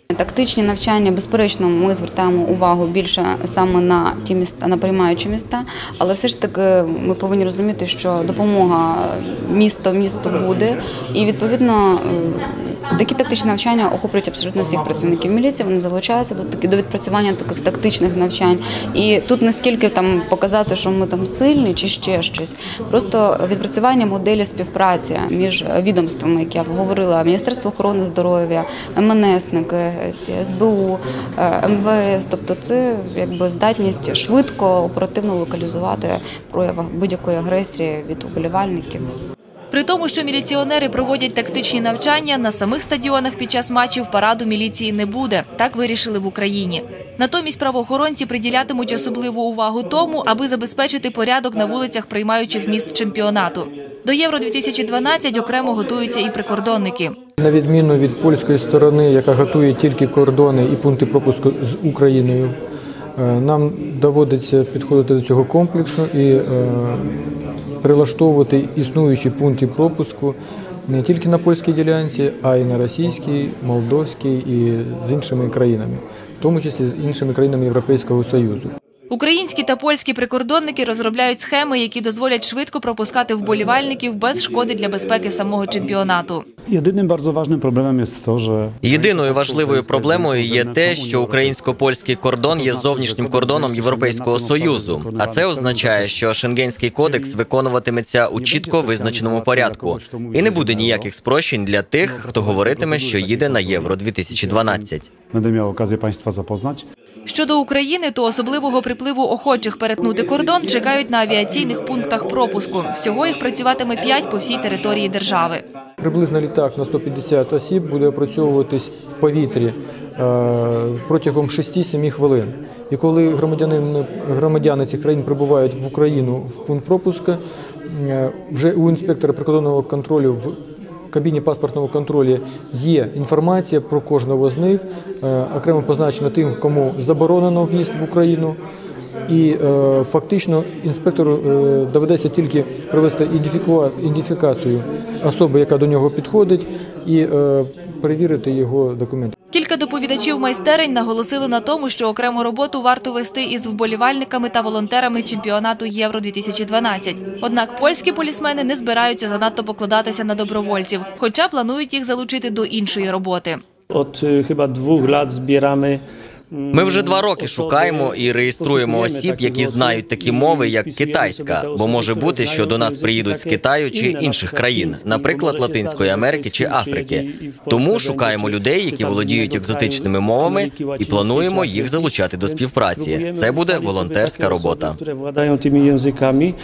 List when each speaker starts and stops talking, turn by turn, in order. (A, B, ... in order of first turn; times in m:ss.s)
0:00.1-0:39.1 A
0:39.7-0:57.1 B
0:57.4-1:02.6 C
1:03.2-1:07.2 C
1:07.8-1:18.7 C
1:19.1-1:26.4 B
1:26.7-1:31.8 D
1:28.8-1:45.1 E
1:32.5-1:36.2 D
1:37.0-1:37.4 D
1:38.3-1:41.1 D
1:42.0-1:46.8 D
1:47.3-1:55.6 B
1:56.0-2:10.6 C
2:11.1-2:18.6 C
2:19.3-2:29.3 C
2:29.5-2:43.6 B
2:36.8-2:41.2 A
2:43.9-2:46.0 F
2:46.5-3:06.5 F
2:46.7-3:05.0 E